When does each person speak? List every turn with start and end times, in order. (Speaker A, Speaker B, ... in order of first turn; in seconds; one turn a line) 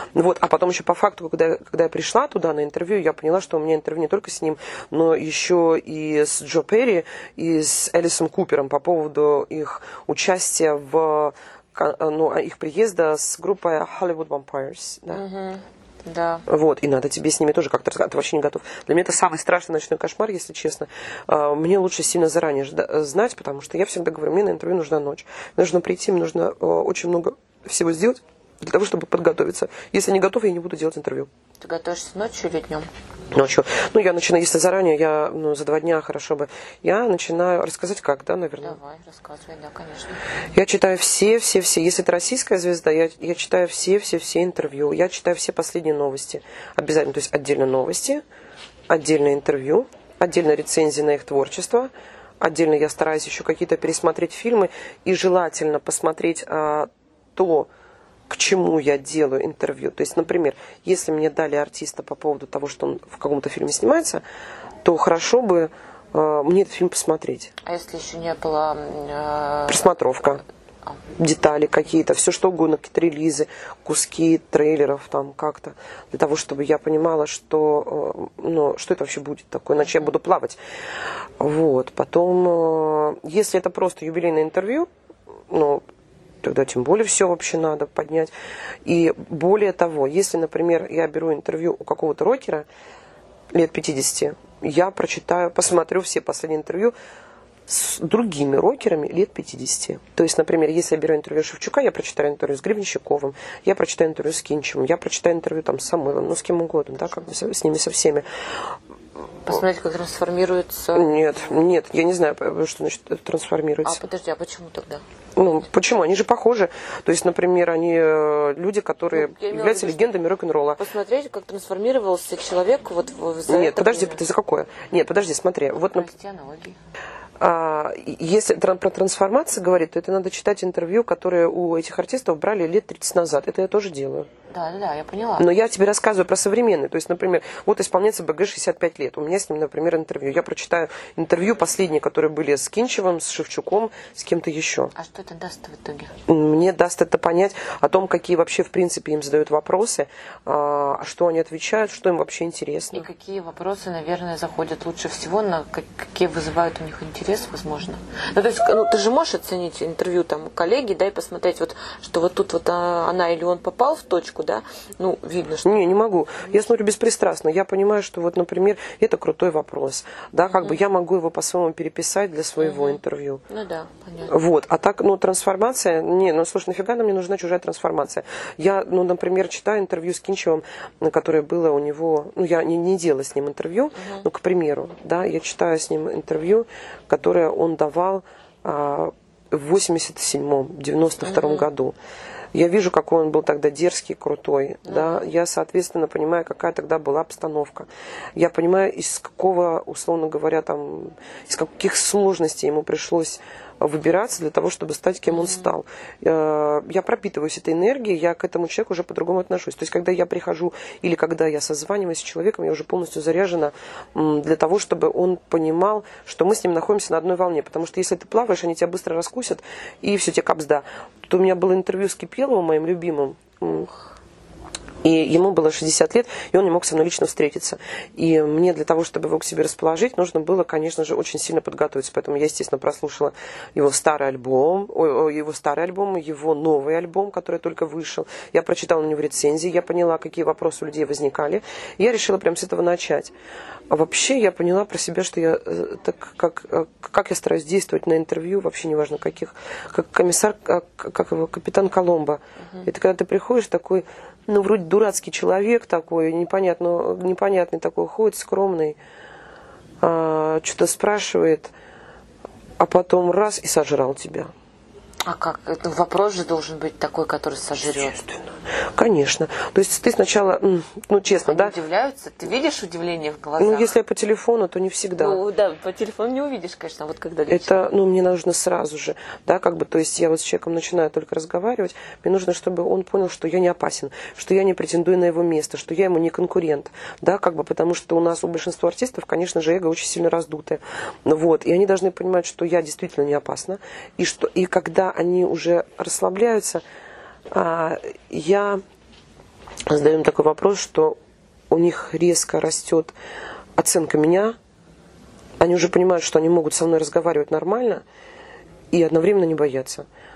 Speaker A: 0.1-15.2
Speaker B: 15.1-16.4
Speaker A: 16.5-31.3
Speaker B: 31.6-32.9
Speaker A: 33.3-38.8
Speaker B: 38.6-40.2
Speaker A: 40.5-48.2
Speaker A: 48.9-51.9
Speaker A: 52.4-57.7
Speaker A: 58.3-64.2
Speaker A: 64.8-67.5
Speaker B: 67.6-69.9
Speaker A: 69.7-70.4
Speaker A: 71.2-80.6
Speaker A: 81.4-84.9
Speaker A: 85.5-85.8
Speaker A: 86.4-88.3
Speaker A: 88.8-92.7
Speaker A: 93.5-96.9
Speaker A: 97.7-108.3
Speaker B: 109.5-111.5
Speaker A: 110.9-114.0
Speaker B: 113.8-115.0
Speaker A: 115.3-120.8
Speaker B: 119.1-120.2
Speaker B: 120.8-124.3
Speaker A: 123.5-126.1
Speaker B: 125.7-126.8
Speaker A: 127.4-134.3
Speaker B: 134.5-135.5
Speaker A: 135.4-144.9
Speaker B: 144.9-146.1
Speaker A: 146.3-153.1
Speaker B: 152.9-165.8
Speaker A: 165.6-173.4
Speaker B: 172.6-173.0
Speaker B: 173.5-174.3
Speaker A: 174.3-191.9
Speaker B: 183.9-184.2
Speaker B: 191.2-191.7
Speaker A: 192.5-223.9
Speaker B: 194.8-195.3
Speaker B: 205.3-205.7
Speaker A: 225.0-243.3
Speaker A: 243.9-259.0
Speaker A: 260.0-261.7
Speaker A: 262.8-264.5
Speaker B: 265.2-268.2
Speaker A: 267.9-271.7
Speaker B: 271.3-273.9
Speaker A: 273.6-275.4
Speaker B: 275.2-277.8
Speaker A: 277.5-296.8
Speaker A: 297.5-298.8
Speaker A: 299.9-301.2
Speaker A: 301.7-303.1
Speaker A: 303.8-304.5
Speaker A: 305.6-308.0
Speaker A: 308.9-310.1